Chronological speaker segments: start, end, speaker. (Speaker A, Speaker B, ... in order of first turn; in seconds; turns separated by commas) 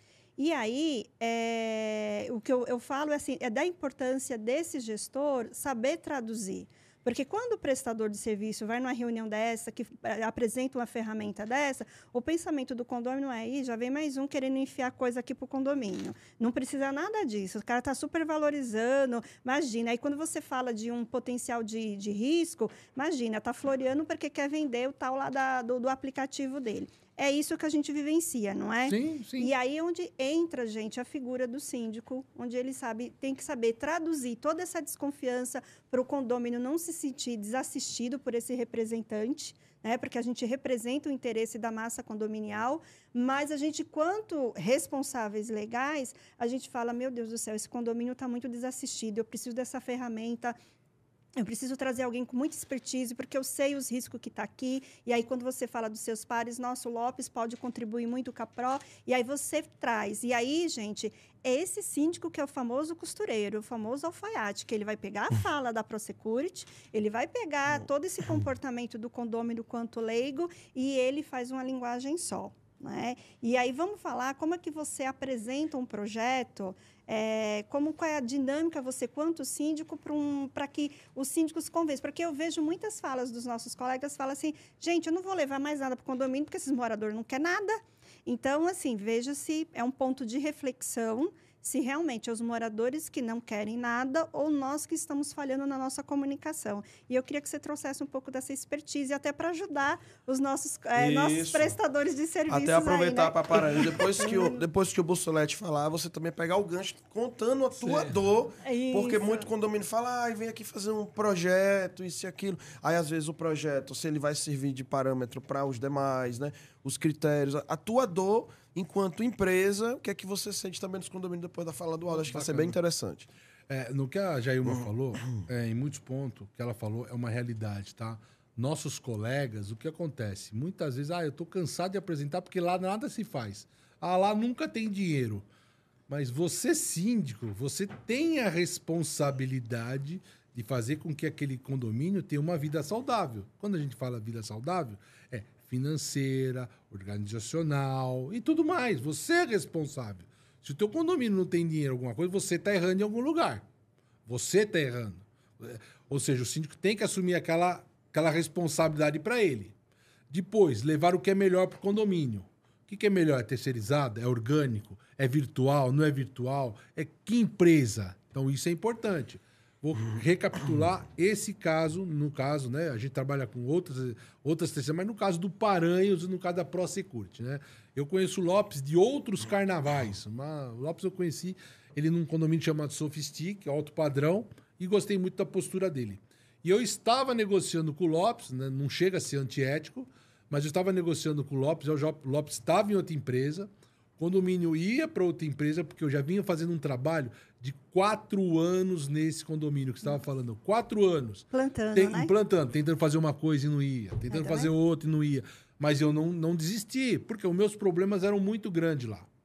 Speaker A: 0.4-50.6, Speaker B: 28.9-29.5, Speaker A: 51.4-104.6, Speaker C: 101.0-101.8, Speaker C: 102.5-123.3, Speaker B: 107.8-108.2, Speaker A: 108.6-109.5, Speaker B: 122.1-122.8, Speaker B: 123.7-135.5, Speaker B: 136.1-153.7, Speaker B: 154.3-159.7, Speaker B: 160.3-209.3, Speaker A: 201.5-202.3, Speaker A: 204.3-204.7